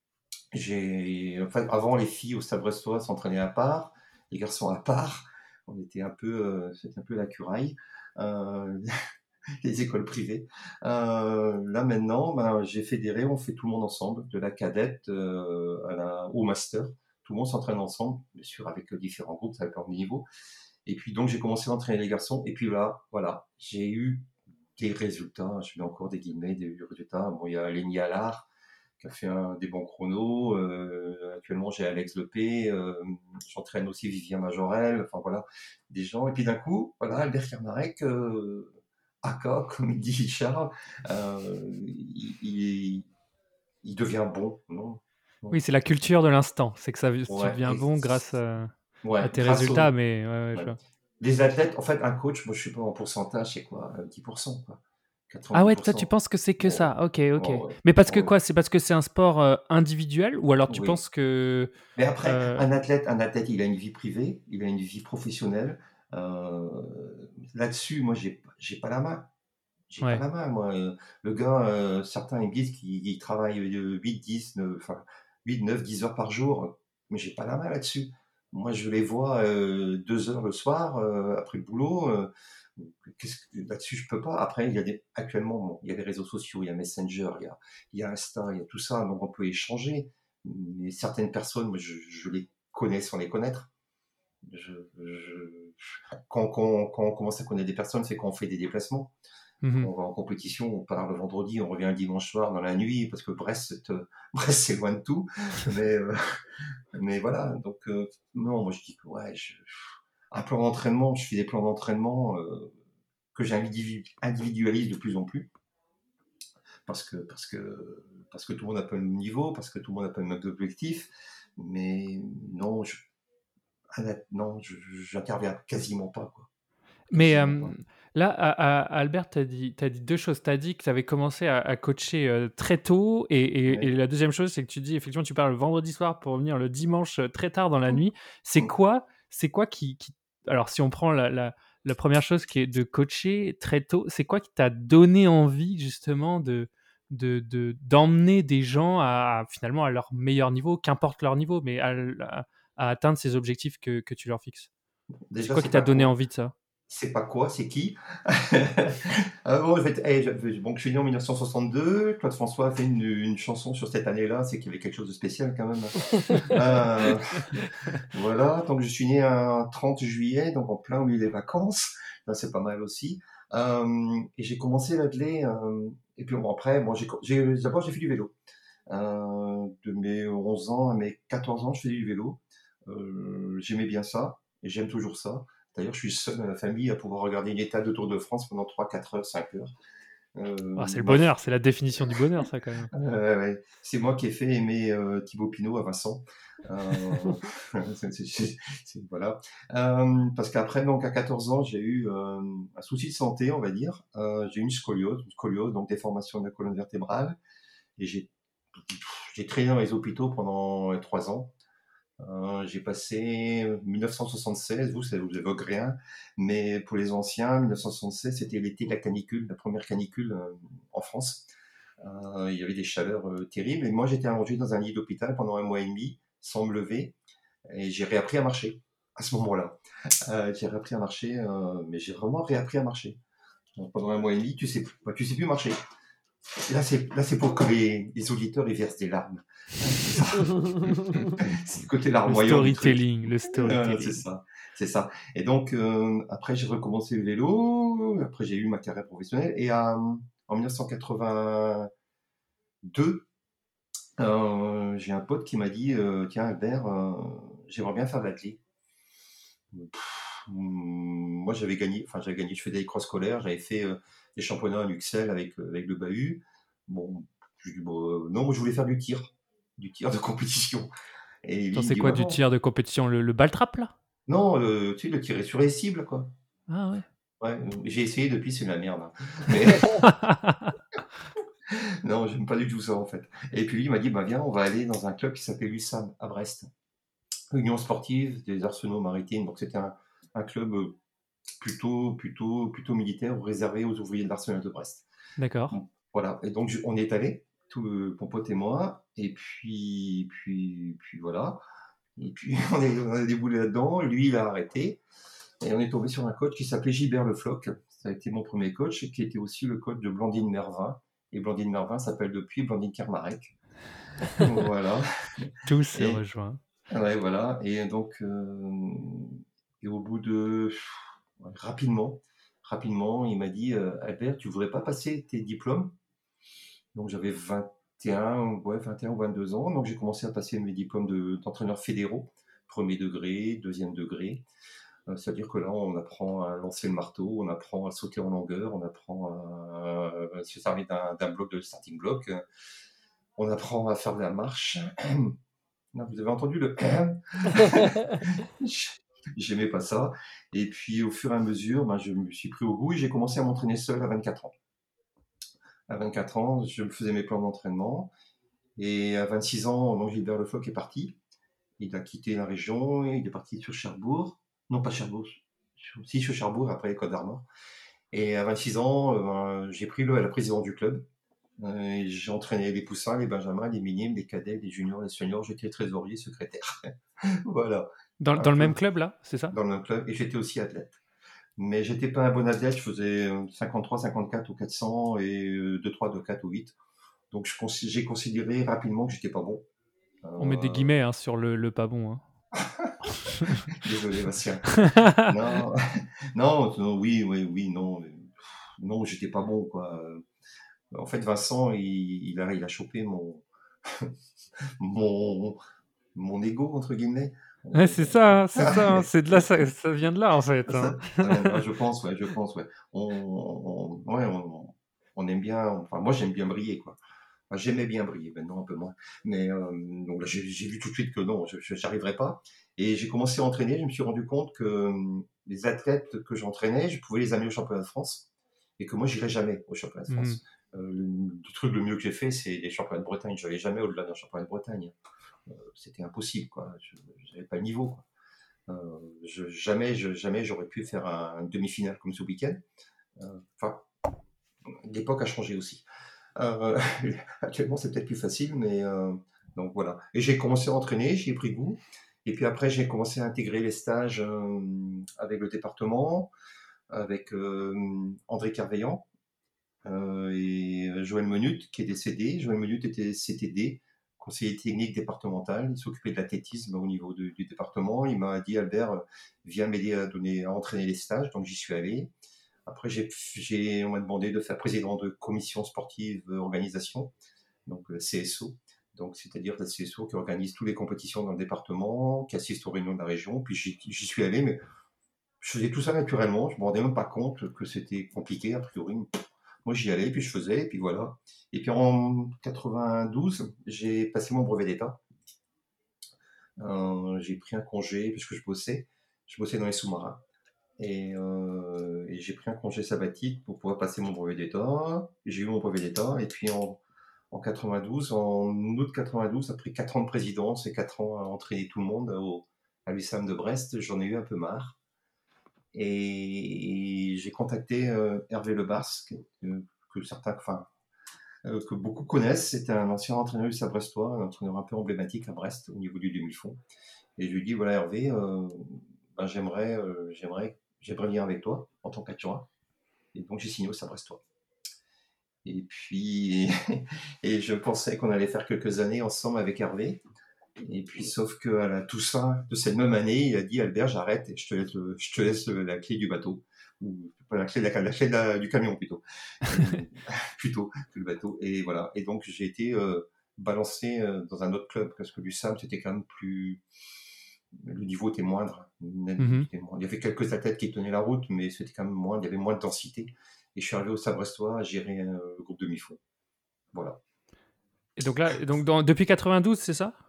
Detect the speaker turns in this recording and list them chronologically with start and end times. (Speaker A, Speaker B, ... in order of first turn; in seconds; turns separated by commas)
Speaker A: 0.5-8.9, Speaker A: 9.6-20.2, Speaker A: 20.8-28.5, Speaker A: 29.0-38.7, Speaker A: 39.2-43.1, Speaker A: 43.8-45.6, Speaker B: 45.5-50.8, Speaker A: 47.3-48.2, Speaker A: 49.0-49.9, Speaker A: 50.5-56.1, Speaker B: 55.5-61.7, Speaker A: 56.6-58.3, Speaker A: 60.7-61.0, Speaker A: 62.0-69.3, Speaker B: 62.2-62.6, Speaker A: 69.9-93.7, Speaker A: 94.4-99.1, Speaker B: 99.6-99.9, Speaker A: 99.8-106.4, Speaker A: 106.9-112.7, Speaker A: 113.3-115.5, Speaker A: 116.8-123.0, Speaker A: 123.9-126.5, Speaker B: 127.1-154.7, Speaker A: 127.1-127.7, Speaker A: 155.3-156.1, Speaker B: 155.5-156.5, Speaker A: 156.9-178.3, Speaker A: 178.9-189.7, Speaker A: 190.3-191.2, Speaker B: 190.8-192.9, Speaker A: 192.9-207.4, Speaker A: 208.0-211.5, Speaker A: 212.2-221.4, Speaker A: 222.0-227.1, Speaker A: 227.7-233.2, Speaker A: 233.7-235.8, Speaker A: 236.5-251.9, Speaker B: 242.2-244.2, Speaker A: 252.8-253.3, Speaker A: 254.2-258.6, Speaker A: 259.7-270.9, Speaker A: 271.4-272.4, Speaker B: 271.7-273.9, Speaker A: 274.3-276.3, Speaker B: 276.7-277.0, Speaker A: 277.4-280.1, Speaker B: 279.8-280.7, Speaker A: 281.7-286.7, Speaker A: 287.5-291.0, Speaker A: 291.6-295.1, Speaker B: 295.4-295.8, Speaker A: 295.7-301.6, Speaker A: 302.2-305.0, Speaker A: 305.6-313.5, Speaker A: 314.4-316.2, Speaker B: 315.6-316.6, Speaker A: 316.9-325.9, Speaker A: 326.9-334.4, Speaker A: 335.1-342.4, Speaker A: 343.4-345.4, Speaker A: 345.9-354.5, Speaker A: 355.9-358.1, Speaker A: 358.8-361.2, Speaker A: 361.8-367.4, Speaker A: 368.1-371.0, Speaker A: 371.6-378.8, Speaker B: 378.2-379.5, Speaker A: 379.5-381.0, Speaker A: 381.6-386.8, Speaker A: 387.3-389.6, Speaker A: 390.2-390.9, Speaker B: 390.4-392.2, Speaker A: 392.5-393.1, Speaker B: 393.1-393.8, Speaker A: 393.7-400.2, Speaker B: 394.7-395.4, Speaker A: 400.9-405.6, Speaker A: 406.1-409.5, Speaker B: 407.7-411.6, Speaker A: 410.7-417.0, Speaker A: 417.5-428.3, Speaker A: 428.8-434.9, Speaker B: 430.1-430.4, Speaker A: 435.5-438.1, Speaker A: 438.7-442.6, Speaker A: 443.1-443.9, Speaker A: 444.7-445.8, Speaker A: 446.4-456.3, Speaker A: 456.9-459.0, Speaker A: 459.8-472.1, Speaker A: 472.7-477.1, Speaker A: 477.6-484.6, Speaker A: 485.4-489.1, Speaker A: 489.6-495.0, Speaker A: 496.6-500.2, Speaker A: 500.8-514.8, Speaker A: 515.7-520.7, Speaker A: 521.4-526.6, Speaker A: 527.2-532.5, Speaker A: 533.1-534.2, Speaker A: 535.4-540.0, Speaker A: 540.6-556.6, Speaker A: 557.5-566.0, Speaker B: 559.2-559.5, Speaker A: 566.7-567.0, Speaker B: 568.0-570.0